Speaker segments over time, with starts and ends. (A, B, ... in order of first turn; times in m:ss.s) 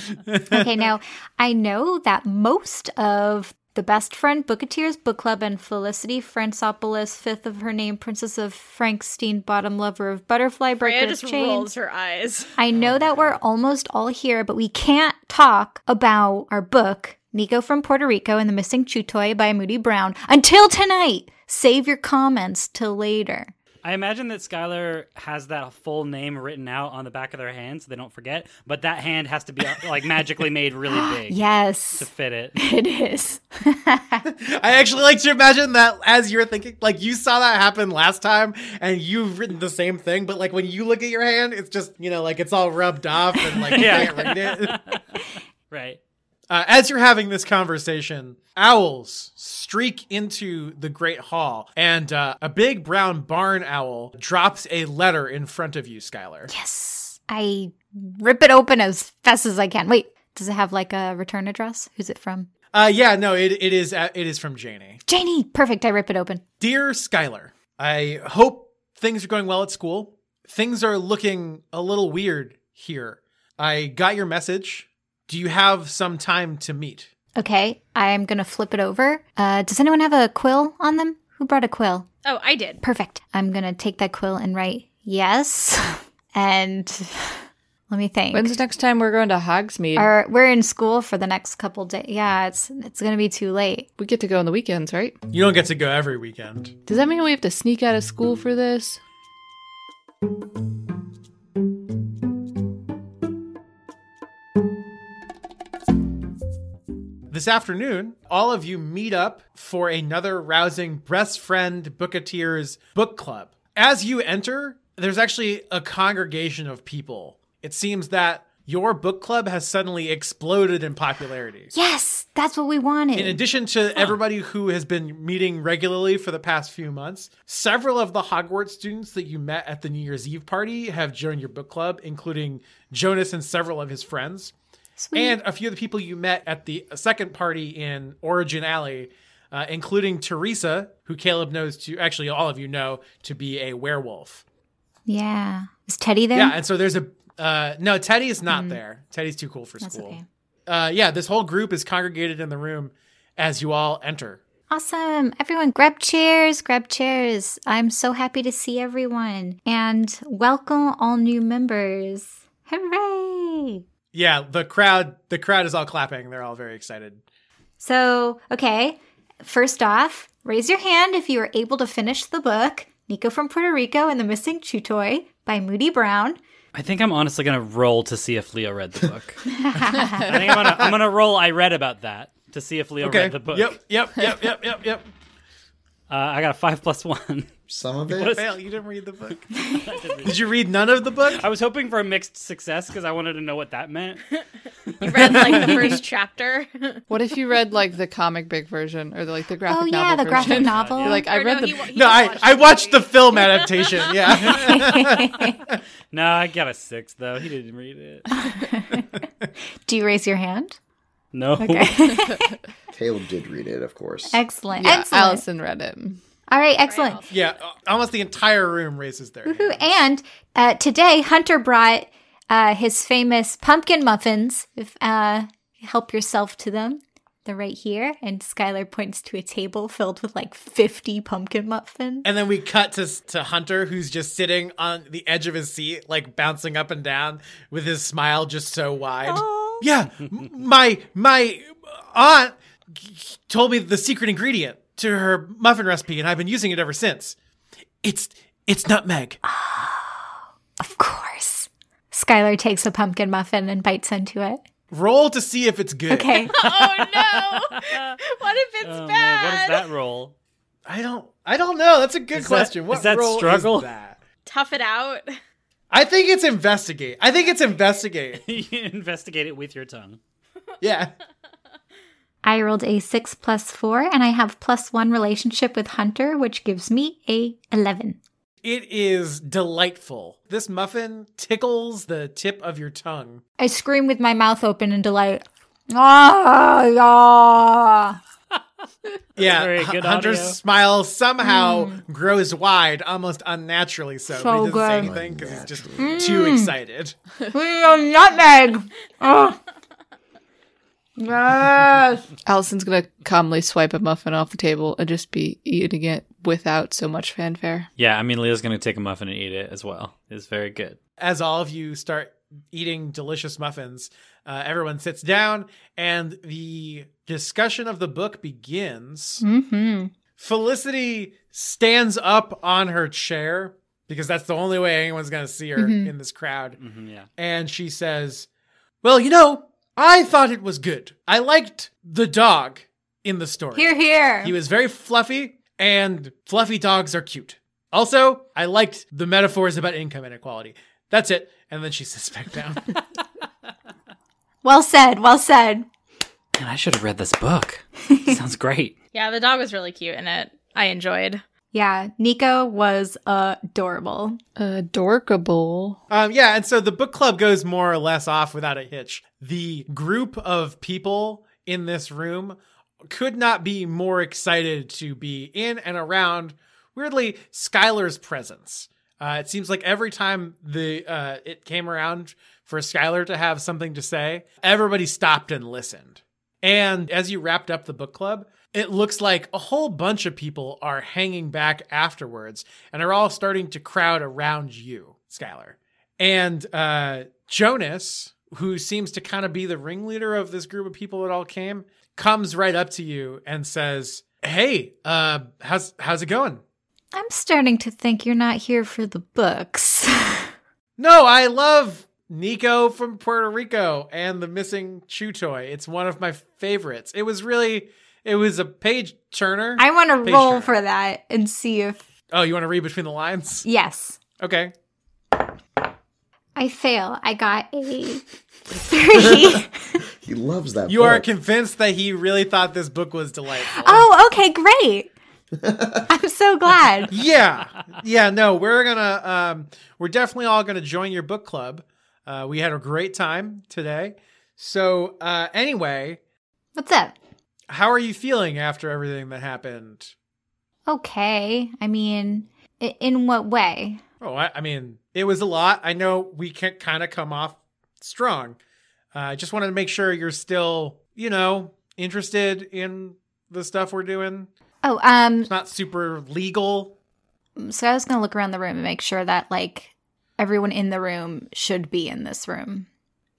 0:00.3-0:00.6 A
0:00.5-0:11.7 B
0:10.8-0:12.6 C
0:12.6-0:23.5 B
0:12.7-0:13.4 D
0:23.8-0:31.4 D
0:30.9-0:34.2 B
0:32.0-0:32.6 D
0:34.3-0:44.8 A
0:43.7-0:46.0 D
0:46.5-0:56.5 A
0:56.5-1:02.5 B
1:02.7-1:05.0 A
1:05.1-1:06.4 B
1:06.6-1:17.1 A
1:17.4-1:22.1 B
1:22.2-1:22.8 C
1:22.8-1:28.6 B
1:28.3-1:30.1 E
1:30.0-1:33.9 B
1:34.0-1:35.2 E
1:35.3-1:36.7 A
1:36.9-1:39.0 E
1:47.3-2:01.7 A
2:01.7-2:03.4 B
2:03.2-2:14.5 A
2:15.0-2:15.4 B
2:15.2-2:24.4 A
2:25.1-2:26.6 B
2:26.3-2:34.4 A
2:28.5-2:28.8 B
2:29.8-2:30.2 B
2:34.7-2:43.8 B
2:44.1-2:47.2 A
2:47.8-2:56.4 B
2:56.7-2:59.4 D
2:59.5-3:00.3 B
3:00.2-3:03.8 D
3:00.3-3:01.0 A
3:03.0-3:05.1 A
3:06.1-3:07.5 D
3:07.7-3:08.4 F
3:08.1-3:08.5 D
3:08.2-3:09.5 A
3:09.8-3:10.4 D
3:10.2-3:11.4 A
3:11.4-3:14.3 D
3:14.9-3:16.0 D
3:15.0-3:17.0 C
3:17.1-3:21.9 E
3:19.7-3:21.3 B
3:20.4-3:21.3 D
3:21.1-3:24.1 C
3:21.9-3:25.8 A
3:24.3-3:25.6 B
3:26.1-3:28.3 D
3:28.3-3:29.2 B
3:29.9-3:30.8 B
3:31.3-3:32.1 D
3:31.6-3:32.6 B
3:32.9-3:34.4 F
3:34.3-3:35.4 B
3:34.8-3:36.2 E
3:36.5-3:37.2 B
3:36.8-3:37.5 C
3:37.3-3:39.9 A
3:39.5-3:52.3 B
3:52.2-4:07.4 A
3:59.3-3:59.8 B
4:08.0-4:09.4 A
4:09.4-4:14.6 B
4:14.9-4:16.5 A
4:16.1-4:16.5 B
4:16.5-4:19.9 C
4:16.6-4:18.2 D
4:18.8-4:20.3 D
4:20.9-4:24.2 A
4:22.3-4:23.9 D
4:24.5-4:25.4 C
4:25.9-4:28.4 A
4:28.4-4:30.2 D
4:30.8-4:31.1 A
4:32.4-4:38.2 B
4:38.6-4:43.4 A
4:43.6-4:48.2 B
4:49.4-4:57.2 A
4:49.4-4:50.6 D
4:51.4-4:52.0 B
4:54.3-4:55.1 B
4:54.8-4:56.4 F
4:56.0-4:56.7 B
4:57.5-4:59.6 B
5:01.2-5:02.3 B
5:02.5-5:07.9 E
5:08.0-5:11.0 D
5:11.2-5:19.4 A
5:19.4-5:20.1 B
5:20.4-5:26.8 A
5:25.8-5:26.1 B
5:26.8-5:27.3 D
5:27.4-5:28.5 A
5:29.0-5:43.0 A
5:33.7-5:34.6 B
5:44.6-5:45.9 B
5:46.6-5:48.9 D
5:48.1-5:48.4 B
5:49.1-5:51.4 C
5:51.7-5:54.4 B
5:54.6-5:56.0 E
5:56.1-6:02.6 A
6:03.1-6:36.6 A
6:37.1-6:40.5 B
6:41.0-6:50.8 A
6:49.8-6:52.0 B
6:52.3-6:53.7 A
6:53.6-6:54.2 B
6:54.4-6:54.7 A
6:56.6-7:00.0 B
6:59.1-6:59.6 F
7:00.2-7:01.3 F
7:00.9-7:04.1 A
7:03.6-7:05.1 B
7:05.6-7:06.1 F
7:06.1-7:07.1 B
7:07.1-7:16.2 A
7:16.8-7:17.2 B
7:17.7-7:20.1 A
7:20.9-7:24.0 B
7:24.2-7:28.6 A
7:29.1-7:34.5 A
7:34.8-7:35.5 B
7:35.5-7:36.9 A
7:37.6-7:42.9 B